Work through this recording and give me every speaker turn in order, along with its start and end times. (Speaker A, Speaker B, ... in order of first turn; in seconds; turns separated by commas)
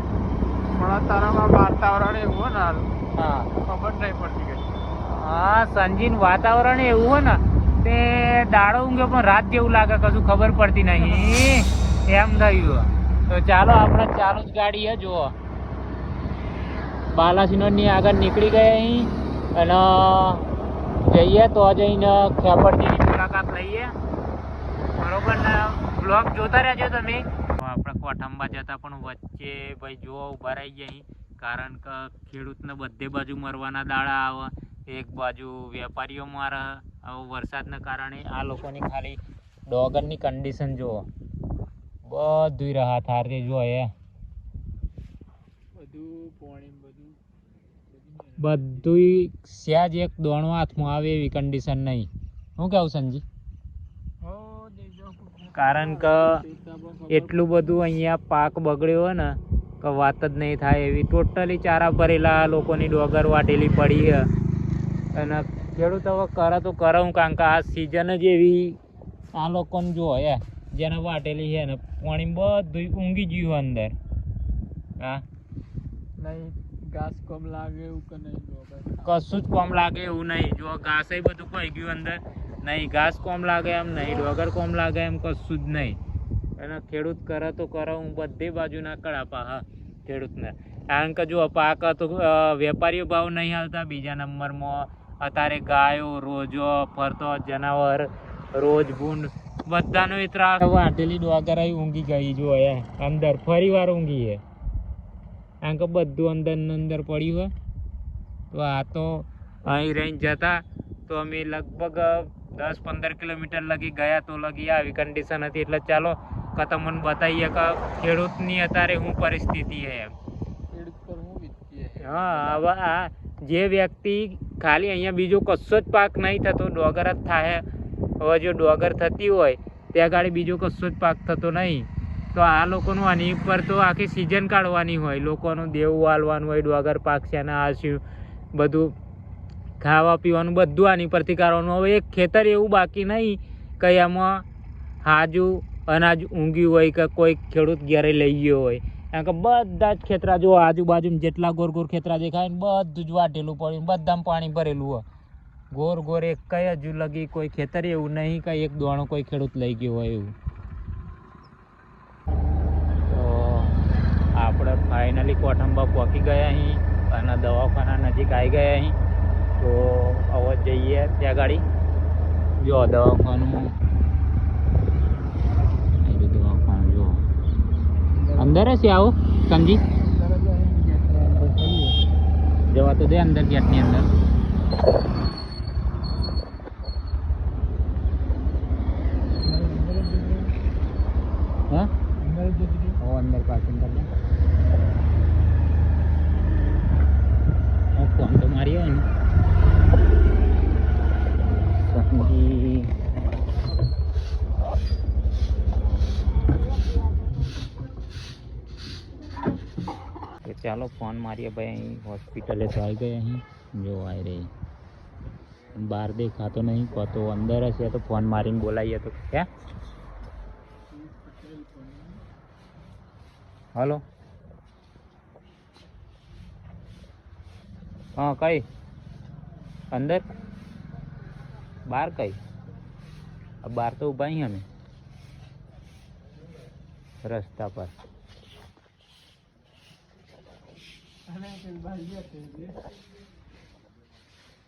Speaker A: 0.5-2.9, Speaker B: 3.2-3.5, Speaker A: 3.6-4.8, Speaker B: 5.0-15.3, Speaker A: 11.1-11.5, Speaker B: 17.1-20.4, Speaker B: 21.0-23.9, Speaker B: 24.9-41.1, Speaker B: 42.0-43.9, Speaker A: 45.7-47.2, Speaker A: 47.9-48.6, Speaker B: 48.4-53.2, Speaker A: 54.2-57.6, Speaker B: 55.5-56.4, Speaker B: 57.1-64.3, Speaker B: 65.1-68.8, Speaker B: 69.3-73.9, Speaker B: 75.0-75.2, Speaker A: 76.2-79.1, Speaker B: 79.0-86.0, Speaker B: 86.6-104.4, Speaker B: 105.6-107.5, Speaker B: 108.5-120.1, Speaker A: 120.7-122.6, Speaker B: 122.0-127.6, Speaker B: 128.2-138.0, Speaker B: 138.5-138.9, Speaker B: 139.8-144.4, Speaker B: 145.0-155.0, Speaker B: 155.7-160.3, Speaker B: 163.1-163.7, Speaker B: 164.3-168.9, Speaker B: 169.6-171.6, Speaker B: 172.6-173.7, Speaker B: 176.0-177.2, Speaker A: 178.1-178.7, Speaker B: 178.3-179.8, Speaker A: 179.9-182.0, Speaker B: 182.7-184.1, Speaker A: 189.4-190.5, Speaker A: 192.2-193.0, Speaker B: 193.0-194.1, Speaker B: 197.9-199.1, Speaker B: 201.5-202.9, Speaker B: 210.4-214.5, Speaker B: 215.7-219.5, Speaker A: 220.9-222.2, Speaker B: 223.7-224.0, Speaker B: 228.2-228.6, Speaker B: 229.9-230.2, Speaker B: 231.9-232.4, Speaker B: 233.6-234.6, Speaker B: 237.2-237.9, Speaker A: 241.3-242.8